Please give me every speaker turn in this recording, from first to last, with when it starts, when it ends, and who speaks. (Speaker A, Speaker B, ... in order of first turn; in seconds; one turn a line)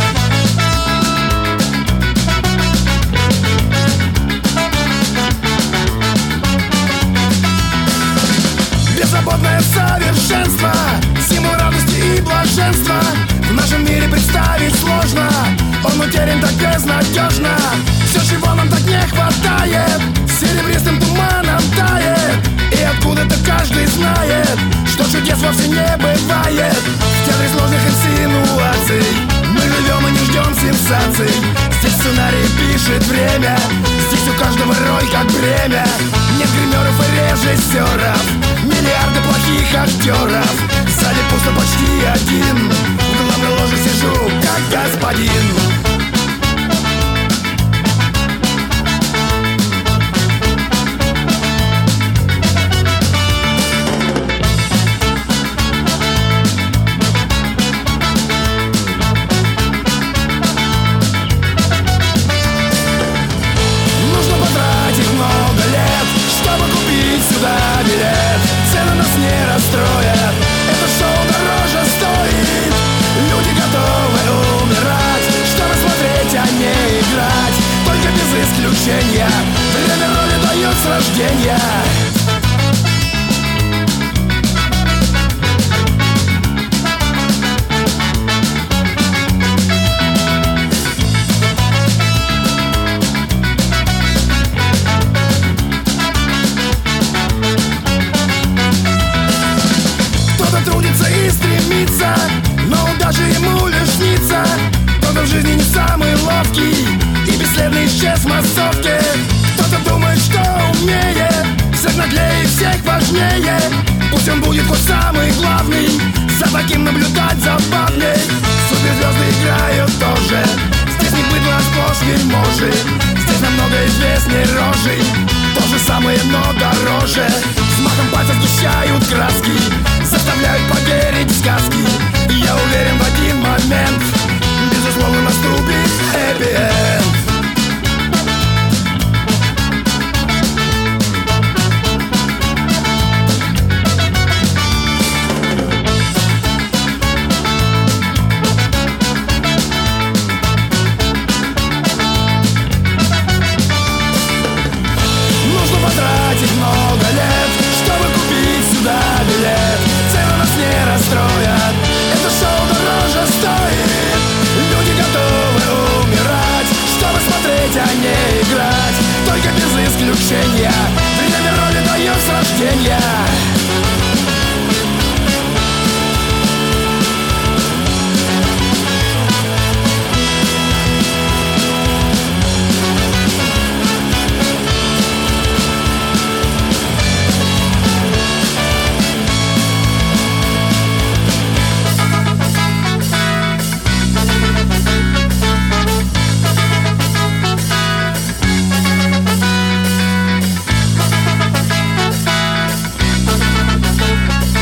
Speaker A: 8.9-45.7
Speaker A: 64.0-82.1
Speaker A: 100.3-137.2
Speaker A: 155.4-173.5